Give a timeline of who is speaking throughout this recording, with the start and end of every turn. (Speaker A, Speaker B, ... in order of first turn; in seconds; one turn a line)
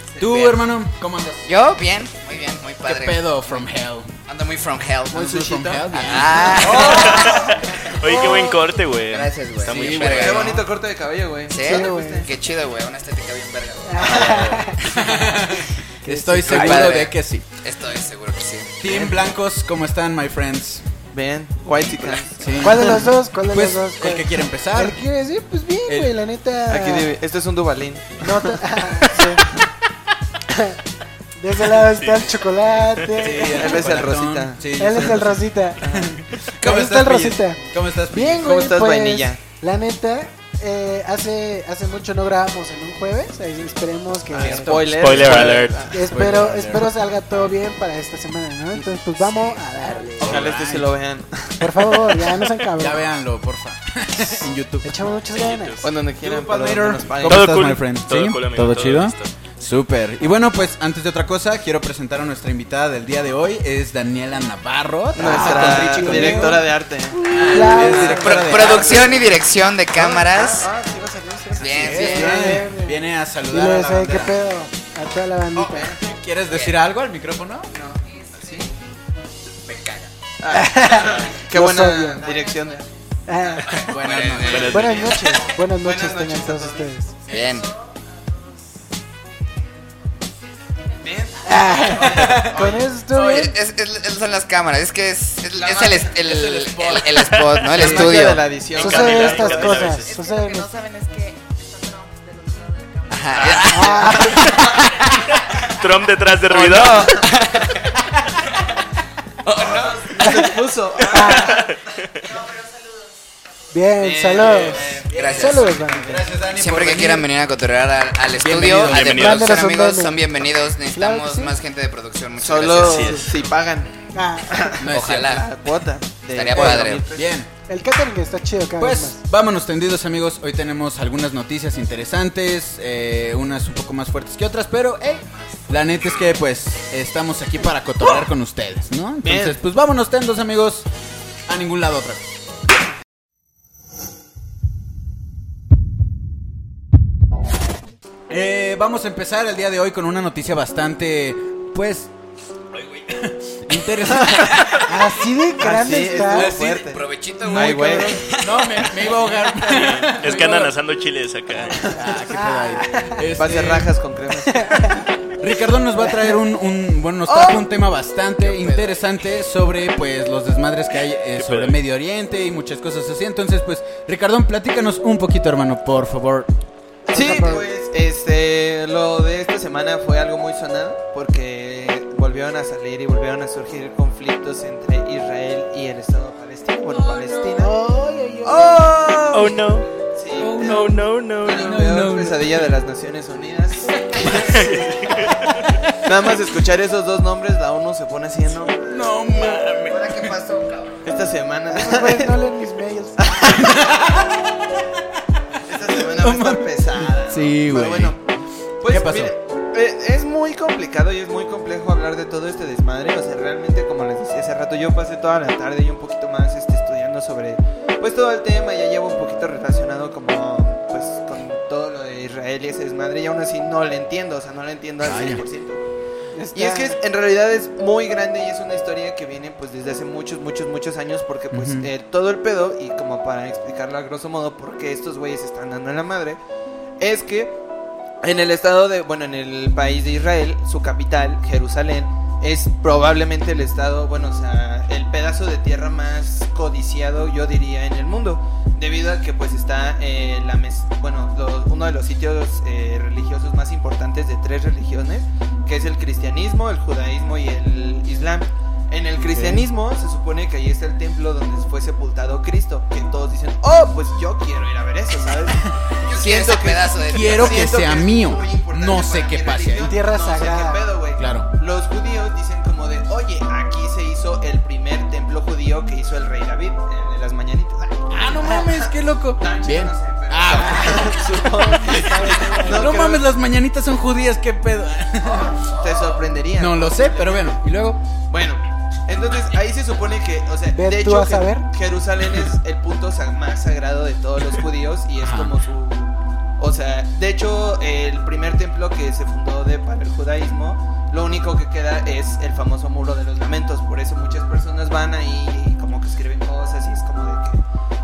Speaker A: 0.1-0.5
Speaker B: 0.2-1.6
Speaker C: 1.4-3.6
Speaker B: 2.8-4.1
Speaker C: 4.3-7.5
Speaker B: 5.1-7.1
Speaker A: 5.2-7.6
Speaker D: 6.7-8.8
Speaker E: 6.8-10.6
Speaker C: 9.1-10.6
Speaker B: 9.7-10.3
Speaker A: 10.1-12.3
Speaker C: 11.5-14.8
Speaker D: 11.6-12.3
Speaker D: 13.8-14.8
Speaker E: 14.1-15.4
Speaker B: 14.8-17.4
Speaker D: 16.0-17.0
Speaker C: 16.4-19.3
Speaker B: 18.8-20.8
Speaker A: 21.1-23.1
Speaker B: 21.8-25.0
Speaker D: 22.6-27.1
Speaker B: 25.9-26.1
Speaker A: 26.7-29.3
Speaker D: 28.2-29.6
Speaker D: 30.5-30.8
Speaker D: 31.4-33.6
Speaker E: 31.8-32.3
Speaker B: 33.2-38.6
Speaker A: 33.3-35.1
Speaker D: 34.8-35.8
Speaker A: 35.8-36.1
Speaker D: 36.6-37.6
Speaker D: 38.1-44.8
Speaker A: 38.3-39.4
Speaker A: 44.3-46.1
Speaker B: 44.4-47.0
Speaker E: 44.9-45.9
Speaker D: 45.9-50.5
Speaker B: 50.2-50.9
Speaker A: 50.2-52.1
Speaker D: 51.6-53.0
Speaker B: 52.6-55.1
Speaker D: 54.8-55.8
Speaker E: 55.3-55.9
Speaker A: 55.8-57.6
Speaker B: 56.2-69.1
Speaker E: 57.2-59.3
Speaker A: 65.1-69.3
Speaker D: 65.2-68.3
Speaker C: 67.3-70.7
Speaker A: 69.9-72.6
Speaker C: 71.5-72.6
Speaker B: 71.7-74.3
Speaker D: 72.0-75.9
Speaker A: 74.0-74.3
Speaker A: 75.5-76.0
Speaker B: 75.9-77.7
Speaker A: 77.7-78.7
Speaker F: 77.9-78.8
Speaker C: 79.7-80.0
Speaker A: 80.4-82.8
Speaker D: 80.5-82.3
Speaker F: 82.2-82.9
Speaker D: 83.3-83.9
Speaker A: 83.4-87.3
Speaker C: 83.7-85.2
Speaker B: 83.8-84.9
Speaker E: 84.3-85.2
Speaker D: 84.7-87.2
Speaker C: 87.3-87.7
Speaker F: 87.3-90.0
Speaker F: 90.9-92.2
Speaker A: 91.0-92.9
Speaker D: 91.4-93.5
Speaker B: 92.2-92.5
Speaker C: 93.1-98.5
Speaker A: 95.5-96.1
Speaker B: 96.2-98.3
Speaker E: 97.3-97.9
Speaker A: 97.7-99.9
Speaker E: 98.6-100.2
Speaker D: 98.8-100.7
Speaker F: 99.6-104.2
Speaker C: 103.1-104.6
Speaker A: 103.3-104.9
Speaker E: 103.4-103.7
Speaker D: 103.6-104.5
Speaker E: 104.3-104.7
Speaker F: 104.8-105.2
Speaker E: 105.5-107.3
Speaker A: 106.5-107.2
Speaker C: 106.6-107.7
Speaker A: 109.4-112.3
Speaker D: 110.1-111.7
Speaker E: 111.5-111.7
Speaker F: 112.2-113.1
Speaker D: 113.7-116.2
Speaker A: 114.0-116.3
Speaker C: 115.1-115.8
Speaker B: 115.1-117.3
Speaker C: 116.5-123.3
Speaker B: 118.4-119.3
Speaker E: 118.7-119.5
Speaker D: 119.1-120.2
Speaker D: 120.9-121.5
Speaker A: 122.4-127.3
Speaker E: 122.8-123.3
Speaker D: 124.1-124.8
Speaker B: 124.8-125.4
Speaker C: 124.8-125.5
Speaker C: 126.3-127.0
Speaker B: 126.5-127.5
Speaker D: 127.7-129.2
Speaker B: 128.8-140.9
Speaker A: 139.2-139.6
Speaker B: 141.5-142.2
Speaker B: 148.3-152.1
Speaker B: 152.8-154.9
Speaker A: 154.2-154.7
Speaker D: 154.7-156.5
Speaker A: 155.6-158.3
Speaker B: 156.2-156.8
Speaker C: 156.5-159.3
Speaker B: 158.4-160.7
Speaker E: 159.6-161.9
Speaker B: 161.8-163.9
Speaker D: 161.9-163.2
Speaker A: 163.3-164.9
Speaker D: 164.4-165.1
Speaker B: 165.4-176.5
Speaker D: 166.0-166.4
Speaker D: 167.3-167.6
Speaker E: 171.3-171.8
Speaker A: 177.1-187.7
Speaker D: 177.1-177.7
Speaker F: 187.1-187.5
Speaker D: 187.5-189.1
Speaker A: 188.4-195.2
Speaker E: 189.3-189.9
Speaker B: 190.4-192.7
Speaker E: 190.6-191.7
Speaker B: 193.9-194.7
Speaker E: 194.3-195.6
Speaker B: 195.6-196.1
Speaker A: 196.0-199.0
Speaker B: 198.7-200.3
Speaker C: 199.4-201.0
Speaker A: 201.0-202.4
Speaker D: 201.7-203.7
Speaker A: 203.2-204.2
Speaker B: 203.4-204.7
Speaker A: 205.7-208.2
Speaker B: 205.9-208.2
Speaker A: 208.8-225.8
Speaker B: 208.9-209.3
Speaker B: 225.0-225.4
Speaker D: 226.3-227.0
Speaker A: 226.5-236.4
Speaker B: 231.5-231.9
Speaker A: 237.0-237.6
Speaker A: 238.2-283.2
Speaker B: 259.2-259.7
Speaker B: 265.5-265.9
Speaker C: 266.0-267.8
Speaker B: 267.1-269.9
Speaker D: 269.8-270.9
Speaker B: 271.2-271.5
Speaker B: 278.1-281.3
Speaker D: 280.5-283.0
Speaker B: 282.0-285.7
Speaker A: 285.6-287.6
Speaker B: 286.6-288.0
Speaker A: 288.3-307.6
Speaker D: 290.7-291.7
Speaker B: 295.2-295.5